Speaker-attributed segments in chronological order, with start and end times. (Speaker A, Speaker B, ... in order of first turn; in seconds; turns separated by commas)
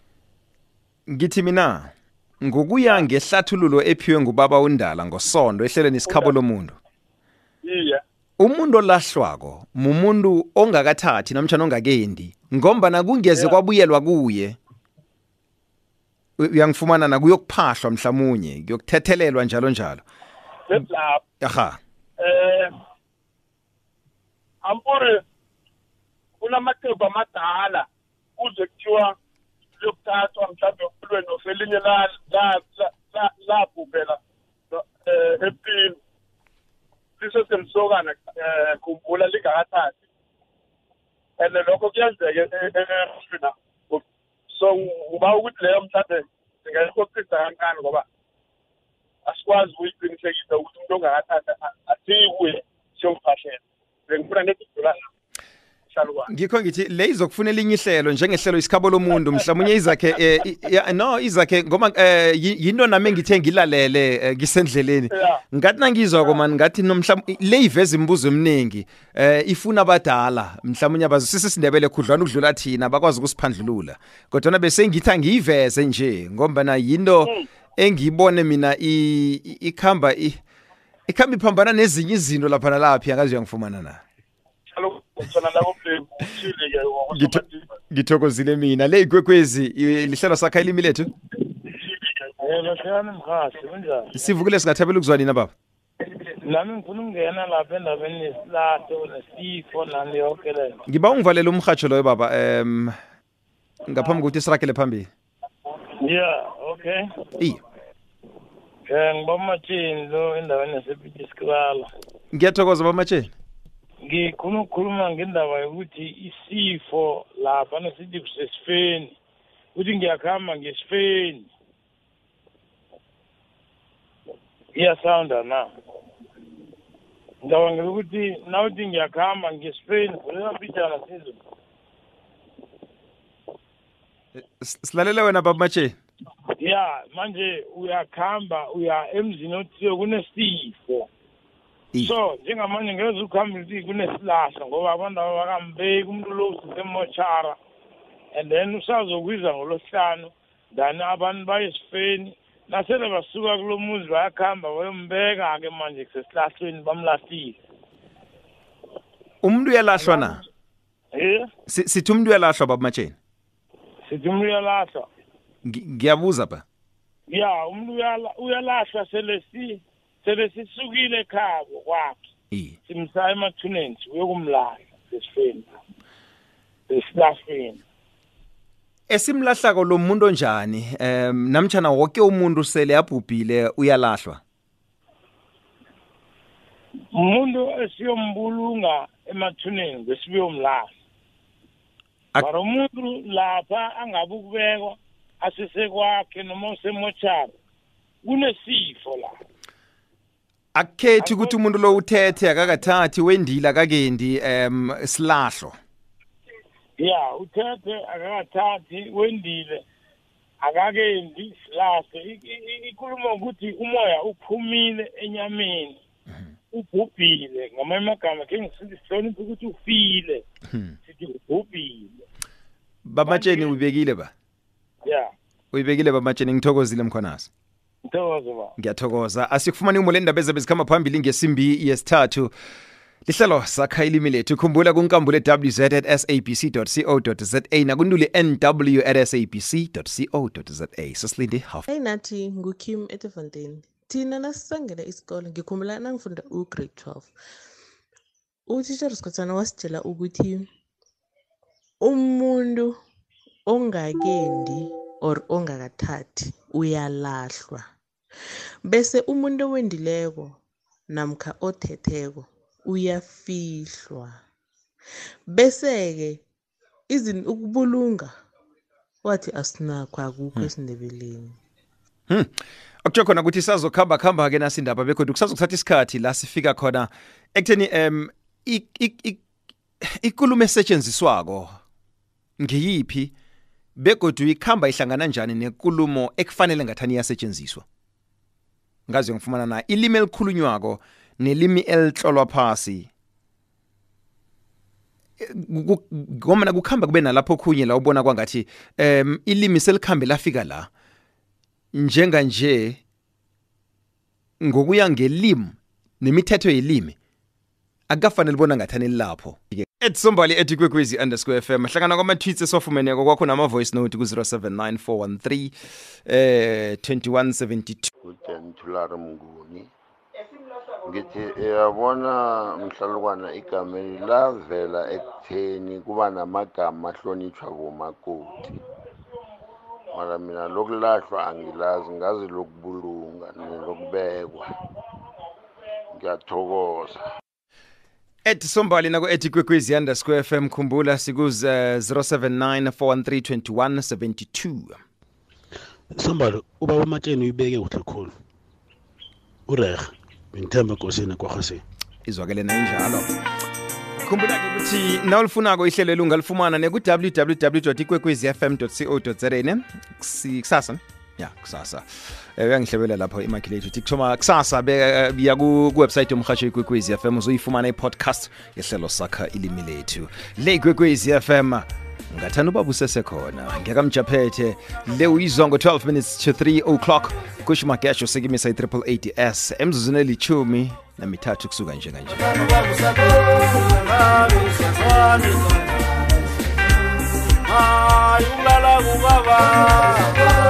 Speaker A: 1.1-1.9, Speaker A: 2.4-6.8, Speaker B: 6.1-6.3, Speaker B: 7.6-8.0, Speaker A: 8.4-14.6, Speaker A: 16.4-20.0, Speaker B: 20.7-21.2, Speaker A: 21.4-21.8, Speaker B: 22.2-22.7, Speaker B: 24.6-25.2, Speaker B: 26.4-27.9, Speaker B: 28.4-29.1, Speaker B: 29.8-34.2, Speaker B: 34.7-36.0, Speaker B: 37.2-40.0, Speaker B: 41.4-48.0, Speaker B: 49.2-55.0, Speaker B: 55.9-56.3, Speaker A: 56.3-80.4, Speaker B: 65.1-65.4, Speaker A: 81.1-84.0, Speaker B: 84.7-87.7, Speaker A: 87.1-91.1, Speaker B: 91.7-92.3, Speaker C: 92.4-94.1, Speaker A: 94.1-95.5, Speaker C: 96.3-100.8, Speaker A: 100.9-103.0, Speaker A: 103.8-105.1, Speaker C: 106.0-107.0, Speaker C: 108.9-111.9, Speaker A: 112.3-113.3, Speaker C: 114.0-119.1, Speaker C: 119.7-121.5, Speaker C: 124.8-125.7, Speaker C: 127.4-131.4, Speaker A: 134.3-136.0, Speaker C: 136.6-141.1, Speaker C: 142.0-147.6, Speaker C: 148.3-157.6, Speaker A: 159.4-160.4, Speaker C: 161.1-161.5, Speaker A: 161.7-163.2, Speaker C: 164.1-165.1, Speaker A: 165.6-166.6, Speaker C: 167.3-172.3, Speaker A: 172.5-172.8, Speaker C: 172.9-175.7, Speaker C: 176.9-177.8, Speaker A: 179.1-184.4, Speaker C: 187.1-190.9, Speaker C: 192.4-197.5, Speaker C: 198.2-199.3, Speaker A: 200.7-205.8, Speaker C: 201.2-202.0, Speaker C: 207.0-209.8, Speaker C: 210.6-215.9, Speaker C: 216.7-220.4, Speaker C: 221.1-222.1, Speaker A: 223.0-224.3, Speaker C: 223.2-223.7, Speaker C: 225.0-225.3, Speaker A: 225.7-227.5, Speaker C: 228.1-228.7, Speaker A: 228.8-232.5, Speaker A: 233.2-241.9, Speaker D: 241.9-247.3, Speaker D: 248.7-250.7, Speaker D: 252.0-252.9, Speaker D: 253.7-257.9, Speaker D: 258.8-264.4, Speaker D: 265.5-266.4, Speaker D: 267.1-268.3, Speaker D: 269.2-271.6, Speaker A: 273.0-279.4, Speaker A: 280.0-281.8, Speaker A: 282.6-283.3, Speaker A: 284.0-287.8, Speaker A: 289.1-293.1, Speaker A: 295.4-300.9, Speaker A: 301.9-303.0, Speaker A: 304.6-307.1, Speaker A: 308.1-315.7, Speaker A: 316.2-318.1, Speaker E: 318.2-319.9, Speaker E: 321.0-328.8, Speaker E: 330.1-334.6, Speaker E: 336.1-337.2, Speaker A: 338.4-345.0, Speaker F: 346.1-348.3, Speaker F: 349.7-351.8, Speaker A: 352.2-353.3, Speaker A: 354.2-362.1, Speaker A: 362.6-382.5, Speaker G: 382.7-385.7, Speaker G: 387.7-390.4